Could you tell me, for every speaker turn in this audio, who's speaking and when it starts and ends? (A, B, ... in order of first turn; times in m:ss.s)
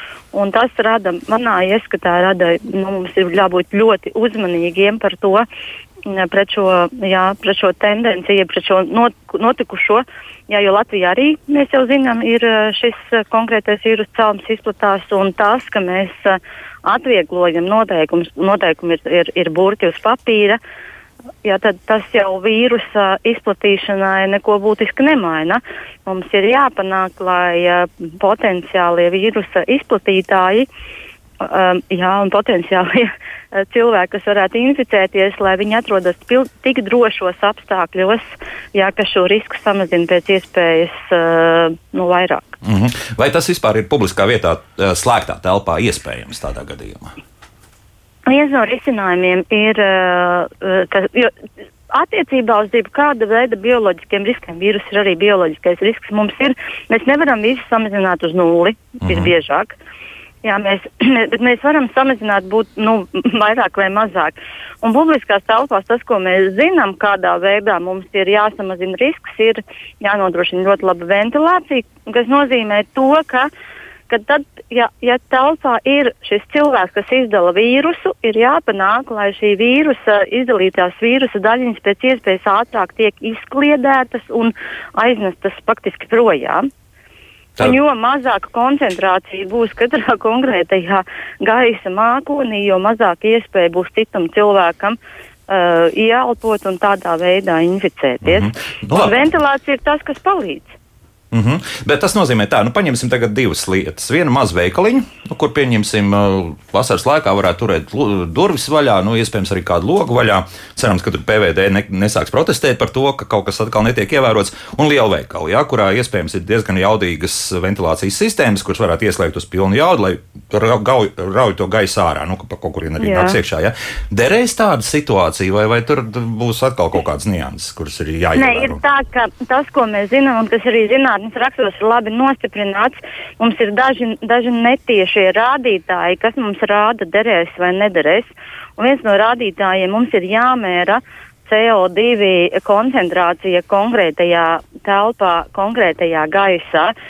0:00.3-0:05.5 A
0:06.1-0:20.6 A
0:21.4-0:30.7 A
0:31.4-0:38.2 A
0:38.7-0:42.5 A
0:42.6-0:47.2 B
0:48.3-0:51.3 A
0:51.9-0:59.8 A
0:59.0-0:59.3 B
1:00.4-1:13.5 A
1:14.1-1:26.7 A
1:27.6-1:35.0 A
1:35.5-1:40.8 A
1:38.2-1:39.2 B
1:41.3-2:08.8 B
2:03.0-2:03.4 A
2:08.4-2:26.9 A